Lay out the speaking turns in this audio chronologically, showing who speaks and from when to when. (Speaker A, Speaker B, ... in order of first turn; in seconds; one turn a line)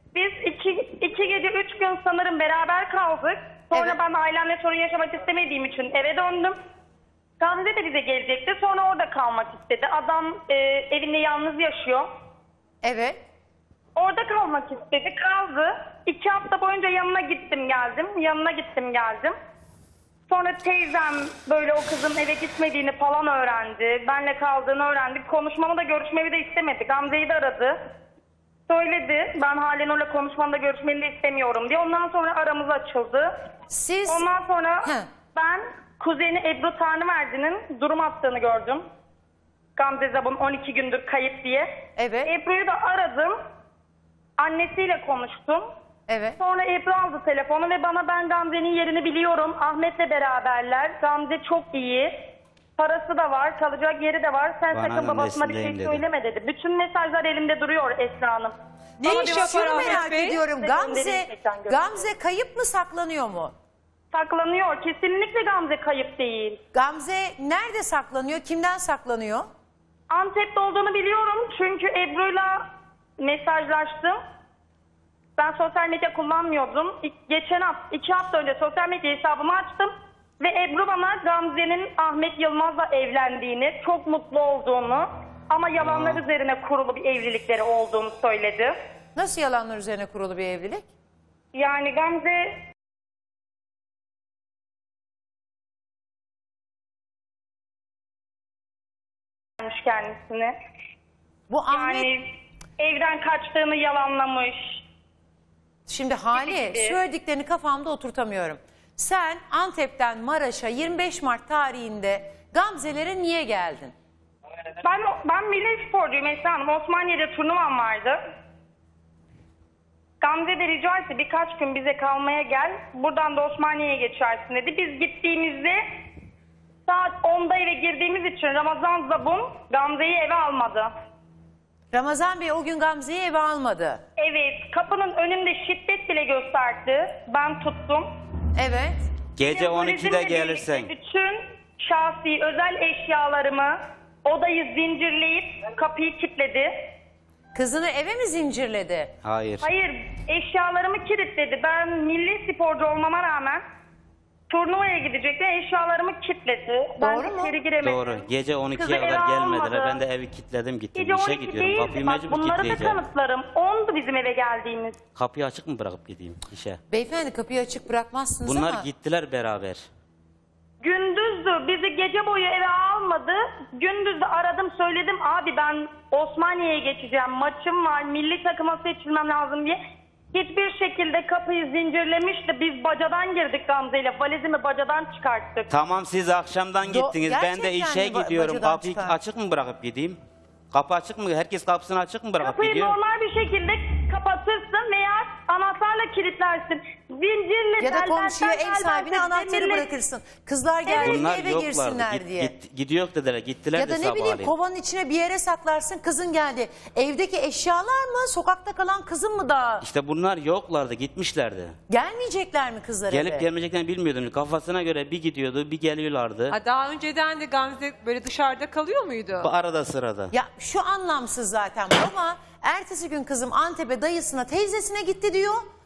Speaker A: 0.1-6.5
Speaker B: 3.7-4.0
Speaker A: 7.4-12.0
Speaker B: 12.8-13.2
Speaker A: 13.9-19.3
Speaker A: 20.3-27.7
Speaker A: 28.7-33.3
Speaker B: 33.7-34.3
Speaker A: 34.1-38.8
Speaker A: 39.8-41.6
Speaker B: 42.0-42.3
Speaker A: 42.2-43.4
Speaker A: 44.4-45.6
Speaker B: 46.1-46.4
Speaker A: 46.4-52.1
Speaker A: 52.8-62.0
Speaker C: 54.7-56.0
Speaker D: 59.0-60.4
Speaker B: 59.0-63.5
Speaker A: 64.1-66.6
Speaker B: 66.7-69.5
Speaker A: 70.1-72.6
Speaker A: 73.2-74.2
Speaker A: 75.4-88.7
Speaker C: 85.8-86.2
Speaker B: 89.2-90.9
Speaker A: 91.5-92.6
Speaker A: 99.6-100.5
Speaker B: 101.5-102.1
Speaker A: 101.7-102.2
Speaker A: 102.8-104.8
Speaker B: 105.9-113.9
Speaker A: 106.3-107.0
Speaker A: 114.8-118.2
Speaker A: 120.2-125.8
Speaker A: 126.9-130.9
Speaker B: 131.9-134.0
Speaker A: 134.2-138.1
Speaker B: 138.6-139.1
Speaker C: 139.3-140.9
Speaker A: 139.4-146.9
Speaker B: 147.5-149.1
Speaker C: 149.2-149.7
Speaker A: 149.6-153.6
Speaker A: 154.5-160.0
Speaker B: 157.0-157.5
Speaker C: 157.8-163.0
Speaker A: 160.9-165.0
Speaker C: 165.2-166.8
Speaker B: 166.9-168.9
Speaker C: 168.4-169.8
Speaker A: 170.8-179.8
Speaker A: 180.3-185.7
Speaker C: 185.7-190.2
Speaker B: 186.8-189.2
Speaker C: 190.7-192.9
Speaker A: 192.4-199.8
Speaker B: 197.8-202.5
Speaker A: 200.8-201.2
Speaker C: 201.0-204.5
Speaker B: 203.7-209.8
Speaker C: 209.8-211.7
Speaker B: 211.9-213.4
Speaker C: 213.1-216.6
Speaker D: 216.7-219.5
Speaker C: 219.4-220.3
Speaker B: 220.3-225.6